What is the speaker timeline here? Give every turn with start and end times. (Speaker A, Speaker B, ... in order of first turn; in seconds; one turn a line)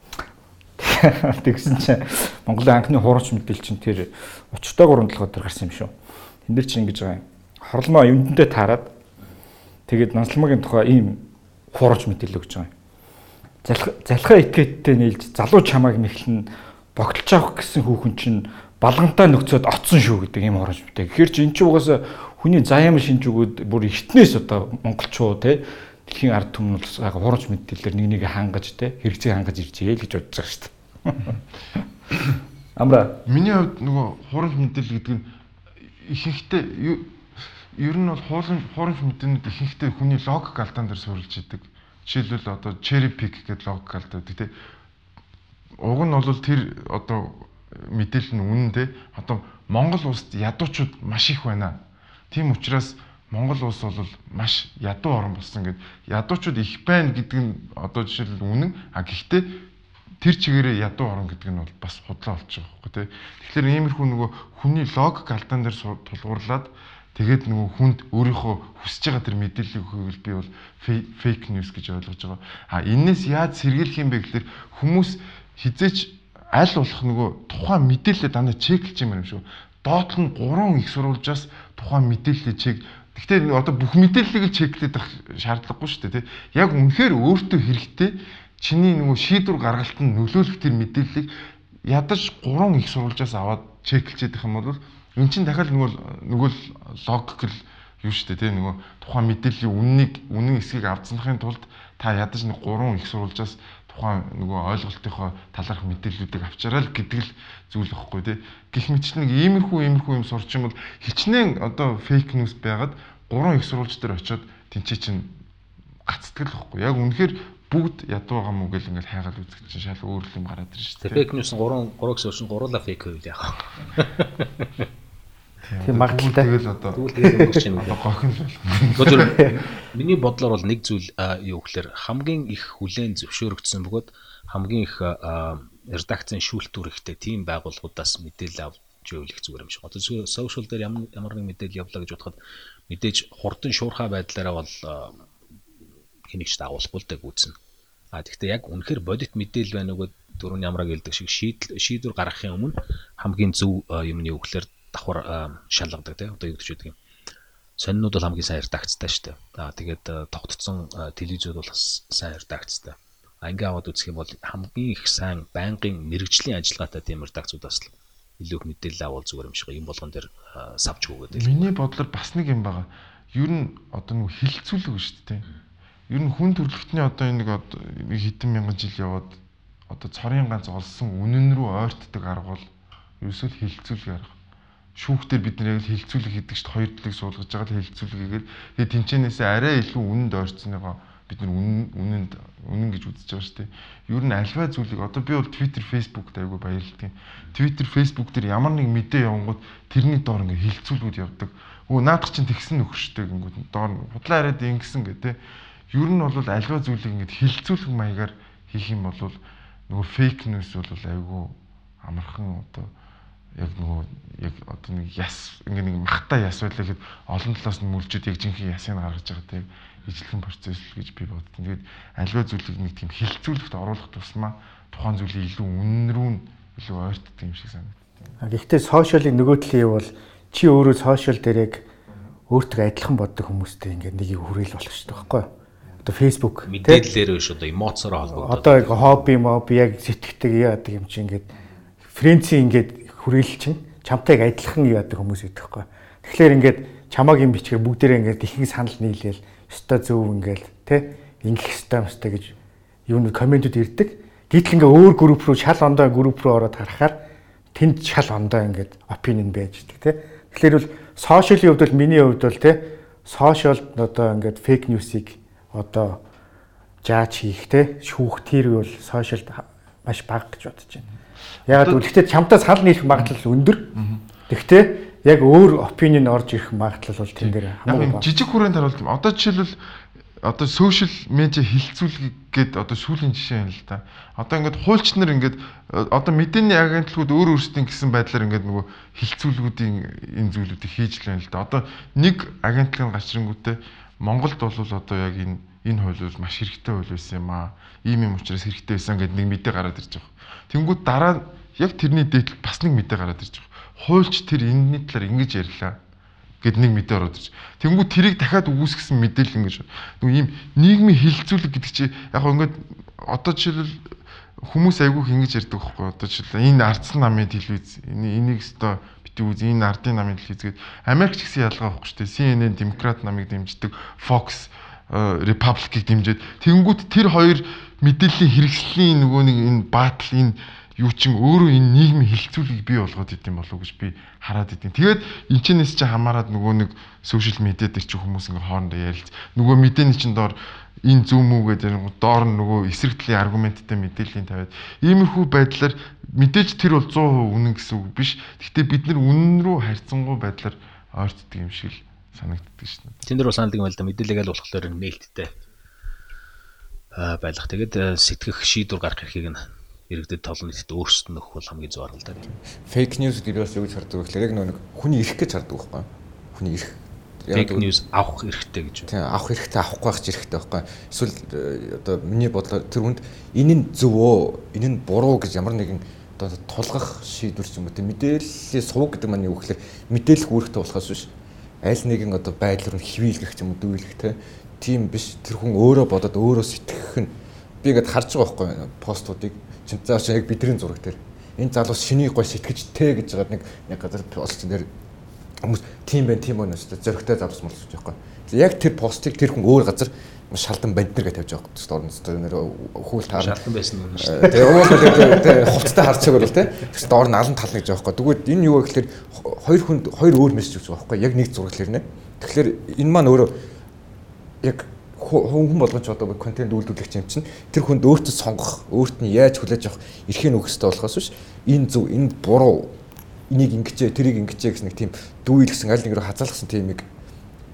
Speaker A: 0.8-5.9
Speaker A: 6.5-8.9
Speaker A: 9.9-12.7
Speaker A: 13.6-31.4
Speaker A: 32.8-33.2
Speaker B: 33.2-35.3
Speaker B: 36.0-37.1
Speaker B: 37.7-44.5
Speaker B: 45.8-51.8
Speaker B: 52.3-59.5
Speaker B: 60.2-91.3
Speaker B: 91.9-115.3
Speaker B: 116.0-121.2
Speaker C: 121.0-124.8
Speaker B: 125.7-129.5
Speaker D: 125.8-126.5
Speaker C: 126.9-128.0
Speaker C: 129.0-142.4
Speaker C: 142.9-145.2
Speaker C: 146.3-147.6
Speaker C: 148.1-156.9
Speaker C: 157.8-171.7
Speaker B: 171.3-175.4
Speaker B: 176.1-179.4
Speaker B: 179.9-182.7
Speaker B: 183.2-184.3
Speaker B: 184.9-205.4
Speaker B: 205.9-212.9
Speaker B: 213.6-228.0
Speaker D: 228.4-231.8
Speaker D: 232.5-235.5
Speaker D: 236.0-237.0
Speaker C: 236.6-239.2
Speaker D: 238.4-241.5
Speaker D: 242.1-252.5
Speaker D: 253.1-257.2
Speaker D: 257.7-266.2
Speaker D: 267.0-271.1
Speaker B: 271.7-272.0
Speaker D: 271.7-273.9
Speaker B: 273.9-274.2
Speaker D: 274.5-278.2
Speaker B: 277.4-279.8
Speaker B: 280.4-306.0
Speaker B: 306.6-353.2
Speaker C: 353.2-355.5
Speaker C: 357.1-362.5
Speaker E: 362.8-367.9
Speaker C: 367.5-369.1
Speaker E: 369.1-381.3
Speaker E: 381.8-387.3
Speaker E: 387.8-394.9
Speaker E: 395.6-403.6
Speaker C: 403.3-406.5
Speaker E: 404.2-413.5
Speaker E: 414.6-422.9
Speaker E: 423.5-427.0